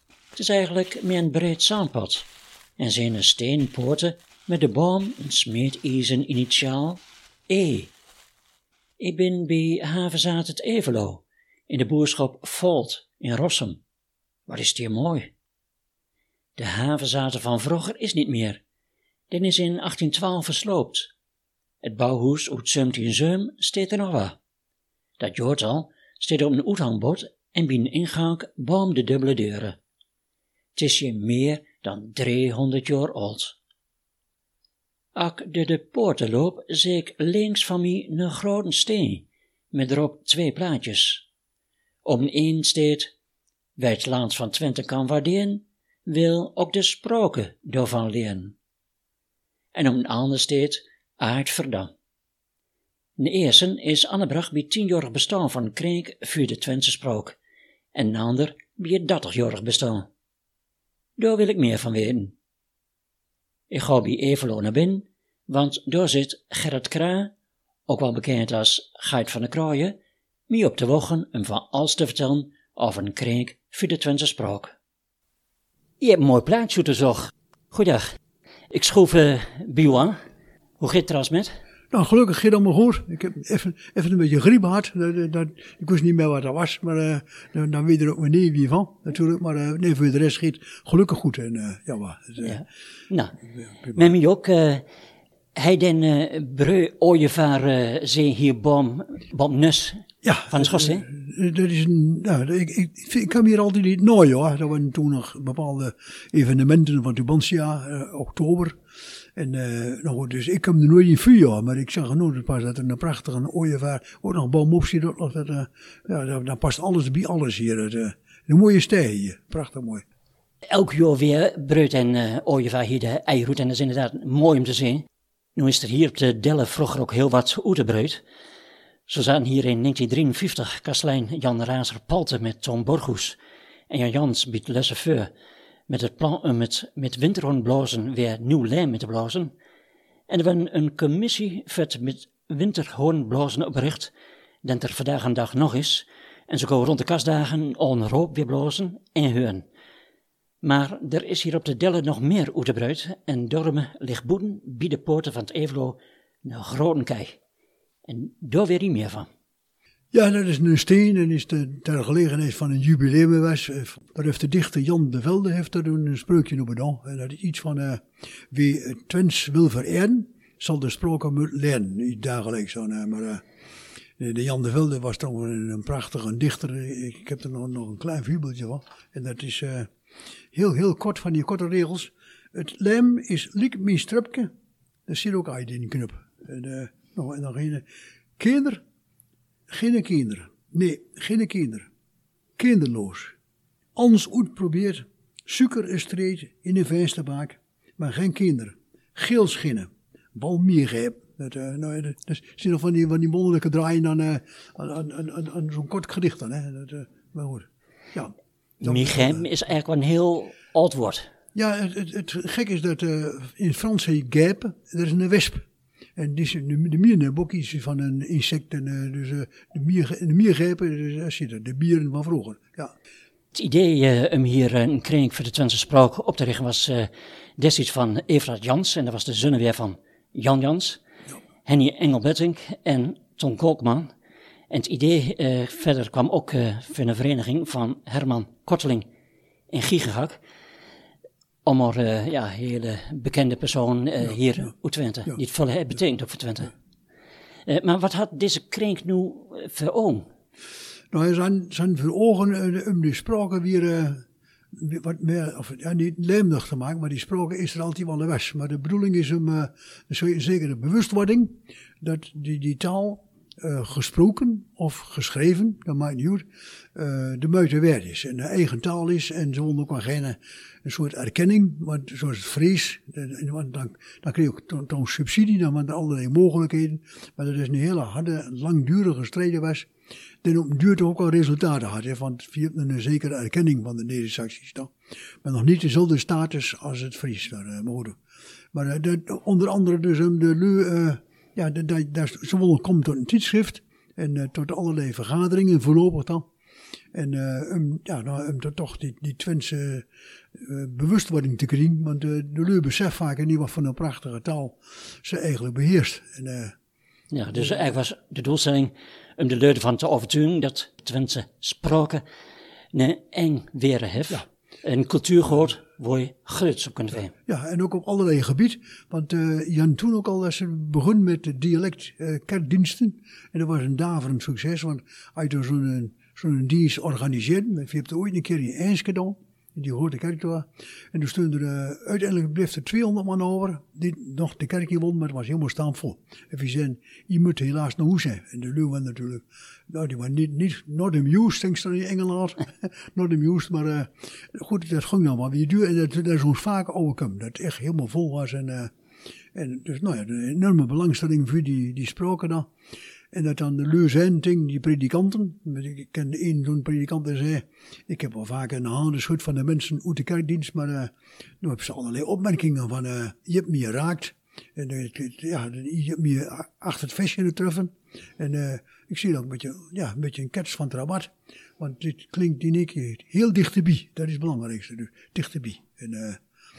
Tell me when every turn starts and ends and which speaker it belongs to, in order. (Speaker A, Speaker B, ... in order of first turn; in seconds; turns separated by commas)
Speaker A: 0.3-7.9, Speaker A: 9.0-13.8, Speaker A: 14.5-15.3, Speaker A: 16.6-18.6, Speaker A: 19.3-21.1, Speaker A: 21.8-24.4, Speaker A: 25.2-29.8, Speaker A: 30.7-33.6, Speaker A: 35.1-41.2, Speaker A: 42.0-43.1, Speaker A: 43.8-48.5, Speaker A: 49.7-51.9, Speaker A: 53.2-57.4, Speaker A: 57.9-60.1, Speaker A: 61.2-62.4, Speaker A: 63.7-67.3, Speaker A: 67.9-70.0, Speaker A: 70.5-74.8, Speaker A: 76.0-78.0, Speaker A: 78.7-80.2, Speaker A: 80.8-81.5, Speaker B: 81.9-92.6, Speaker A: 92.4-93.4, Speaker B: 93.8-94.1, Speaker A: 93.9-94.8, Speaker A: 95.5-101.1, Speaker B: 100.2-108.8, Speaker B: 109.3-120.0, Speaker A: 120.7-128.2, Speaker A: 129.1-133.4, Speaker A: 133.9-135.3, Speaker A: 135.9-139.5, Speaker A: 140.3-144.1, Speaker A: 144.6-149.6, Speaker A: 150.6-157.4, Speaker A: 158.1-159.3, Speaker B: 160.1-173.4, Speaker B: 174.2-179.9, Speaker B: 180.5-184.5, Speaker B: 185.1-187.8, Speaker B: 188.4-188.8, Speaker B: 189.7-191.9, Speaker B: 192.6-193.3, Speaker B: 193.9-209.4, Speaker A: 208.8-211.3, Speaker B: 211.5-215.6, Speaker B: 216.2-222.9, Speaker A: 223.5-231.0, Speaker A: 231.6-234.1, Speaker A: 234.7-239.1, Speaker A: 239.7-240.4, Speaker A: 241.6-246.7, Speaker A: 247.7-250.3, Speaker B: 251.1-279.9, Speaker B: 280.4-284.9, Speaker B: 285.4-288.2, Speaker B: 288.7-296.5, Speaker B: 297.1-306.7, Speaker A: 307.3-312.2, Speaker A: 312.9-317.3, Speaker B: 317.4-348.9, Speaker B: 349.5-352.7, Speaker B: 353.3-376.4